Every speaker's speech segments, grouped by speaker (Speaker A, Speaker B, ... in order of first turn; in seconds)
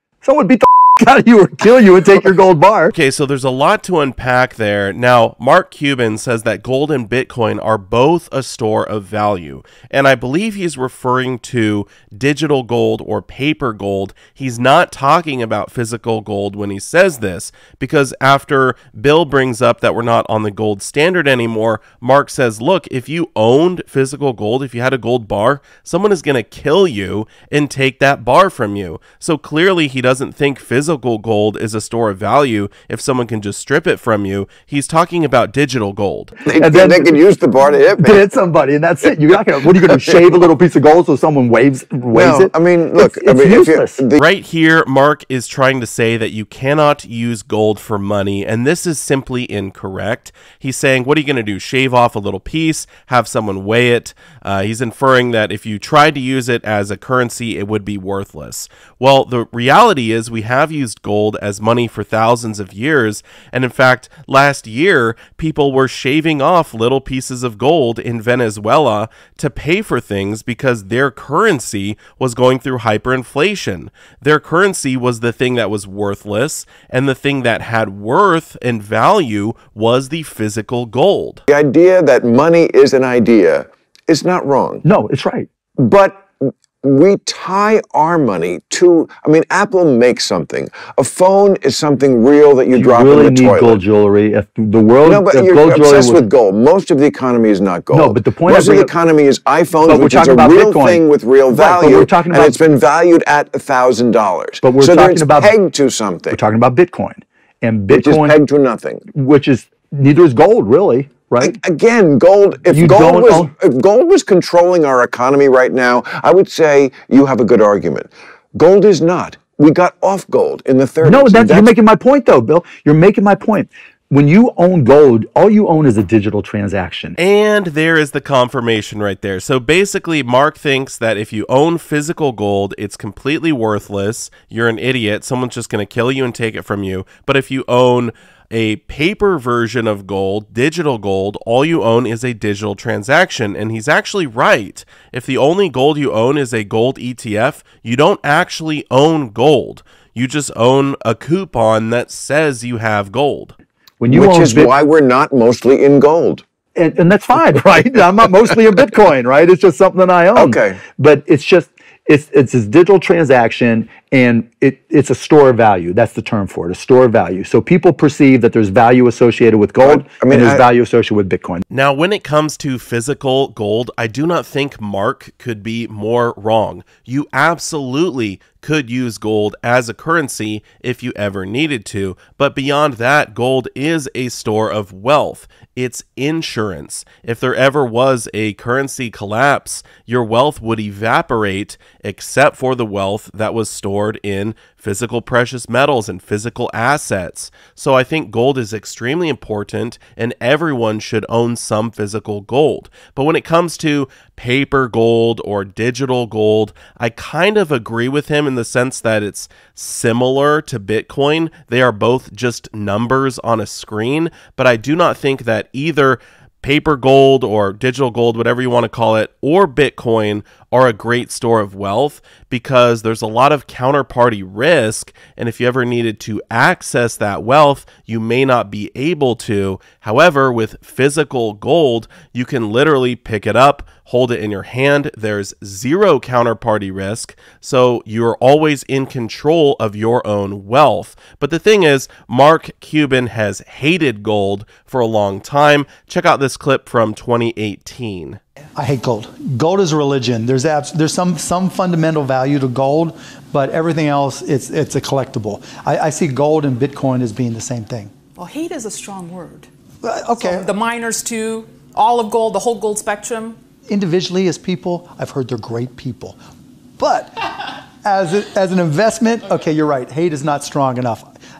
Speaker A: 0.2-2.9, 36.5-37.2, 38.0-44.0, 84.8-85.5, 92.7-96.2, 97.9-98.9, 99.9-102.6, 104.6-105.6, 106.3-108.4, 109.1-111.6, 112.7-113.5, 121.0-127.2, 154.0-154.7, 156.8-171.6
Speaker B: 2.9-36.4, 44.2-81.4, 127.2-153.5, 171.7-248.4
Speaker C: 36.5-38.2, 42.1-44.2, 81.5-84.8, 85.8-93.8, 95.0-106.4, 107.9-109.0, 111.4-121.7, 154.1-156.4, 160.4-160.8, 169.8-170.7
Speaker D: 248.8-258.1, 260.0-260.7, 263.9-266.4, 267.0-271.2
Speaker E: 258.4-259.7, 260.4-263.6